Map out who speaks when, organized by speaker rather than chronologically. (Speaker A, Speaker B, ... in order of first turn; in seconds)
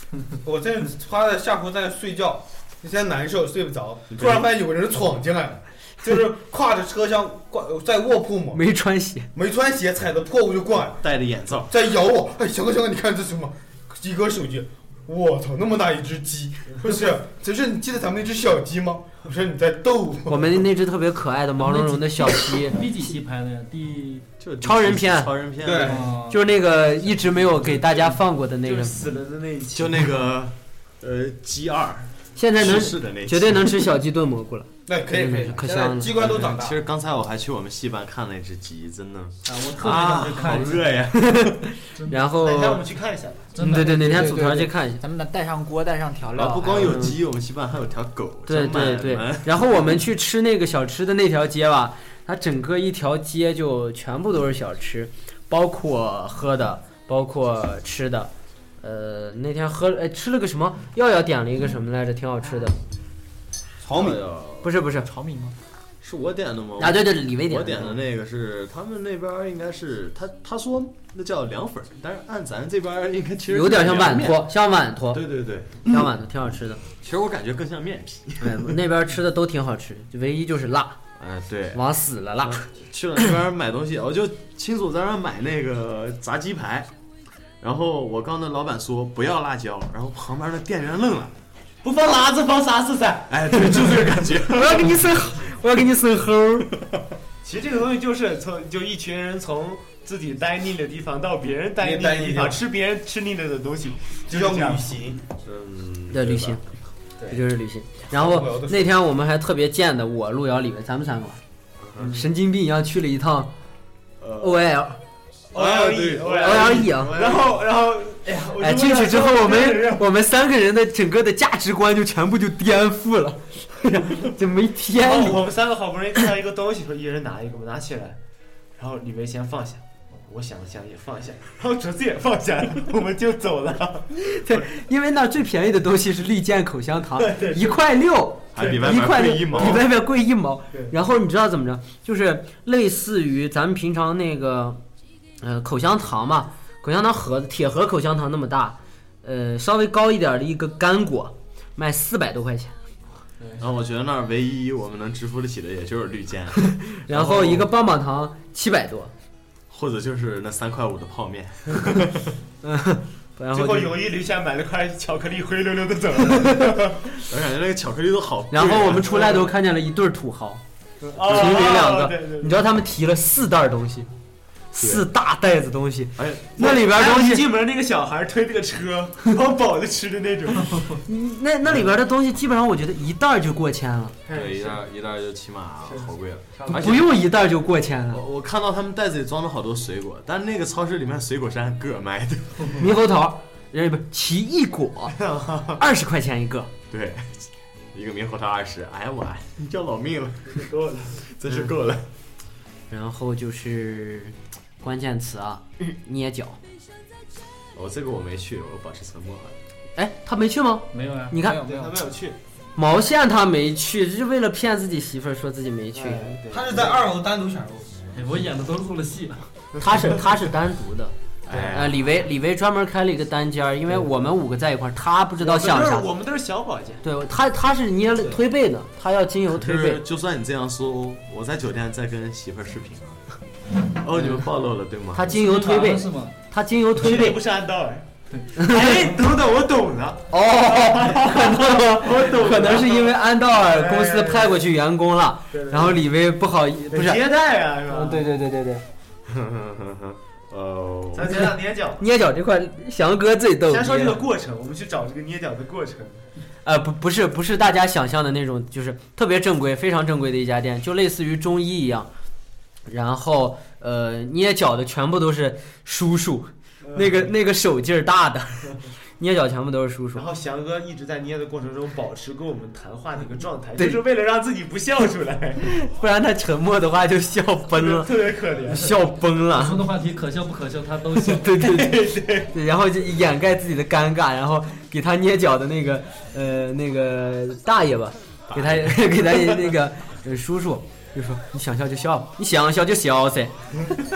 Speaker A: 0.4-8.6, 9.3-11.0, 11.6-20.5, 25.6-26.2, 34.9-36.8, 63.8-64.2, 101.8-102.6, 104.3-105.2, 108.1-108.9, 115.6-116.3, 216.5-218.0
Speaker B: 4.1-4.5, 11.0-11.7, 24.4-26.1, 29.7-33.9, 36.1-41.6, 46.3-49.6, 63.9-64.7, 66.0-74.5, 75.1-76.1, 77.0-78.8, 81.2-81.8, 82.4-86.9, 87.6-91.3, 93.3-95.2, 105.4-106.6, 111.8-112.2, 114.2-114.6, 115.6-117.6, 138.5-139.9, 153.6-157.7, 159.7-162.2, 167.3-169.3, 174.8-175.1, 176.2-176.7, 184.3-187.2, 188.1-192.9, 196.9-202.1, 207.7-209.6, 221.4-222.2, 229.5-233.2, 233.9-235.3, 249.2-251.6, 288.5-289.7
Speaker C: 8.5-9.3, 20.3-22.8, 24.6-25.3, 26.3-29.0, 32.4-36.2, 41.1-42.8, 43.6-45.0, 46.7-47.2, 48.5-62.8, 64.6-65.1, 66.8-68.0, 73.5-75.2, 75.8-76.8, 78.4-81.0, 81.7-82.7, 94.4-96.7, 106.1-106.6, 107.3-111.4, 112.1-113.5, 114.4-115.0, 116.4-117.2, 118.6-125.5, 134.1-144.8, 145.4-152.7, 156.6-159.1, 162.6-163.9, 168.5-170.6, 171.2-174.1, 174.7-177.4, 181.1-184.2, 186.7-188.2, 192.7-195.2, 195.8-196.7, 202.9-206.6, 209.9-211.6, 212.8-216.4, 219.8-221.1, 221.7-226.1, 227.0-230.0, 235.1-237.4, 238.6-239.1, 240.3-247.2, 247.9-248.8, 252.0-254.2, 256.6-262.1, 262.9-270.3, 273.8-274.0, 275.6-279.8, 281.1-293.5
Speaker D: 21.6-24.2, 25.8-26.4, 39.5-40.9, 41.9-42.2, 43.5-44.2, 210.9-211.4, 218.1-219.5, 235.3-236.3, 279.5-281.6
Speaker E: 27.8-30.1, 42.4-43.5, 91.8-93.8, 97.4-105.1, 112.0-112.3, 115.5-120.1, 124.9-128.2, 128.8-134.1, 137.2-137.8, 139.6-139.8, 153.4-153.6, 163.5-167.0, 169.1-169.4, 171.0-172.6, 176.6-181.0, 184.2-184.8, 185.8-187.0, 195.1-195.8, 200.5-201.2, 211.4-212.4, 215.9-217.1, 221.5-221.8, 225.4-227.0, 236.9-244.7, 245.5-246.0, 246.9-248.3, 251.1-252.0, 253.7-256.3, 266.8-267.3, 270.1-275.7, 277.7-279.0, 281.6-282.5
Speaker F: 39.7-40.6, 43.6-47.1, 65.0-65.5, 211.4-212.0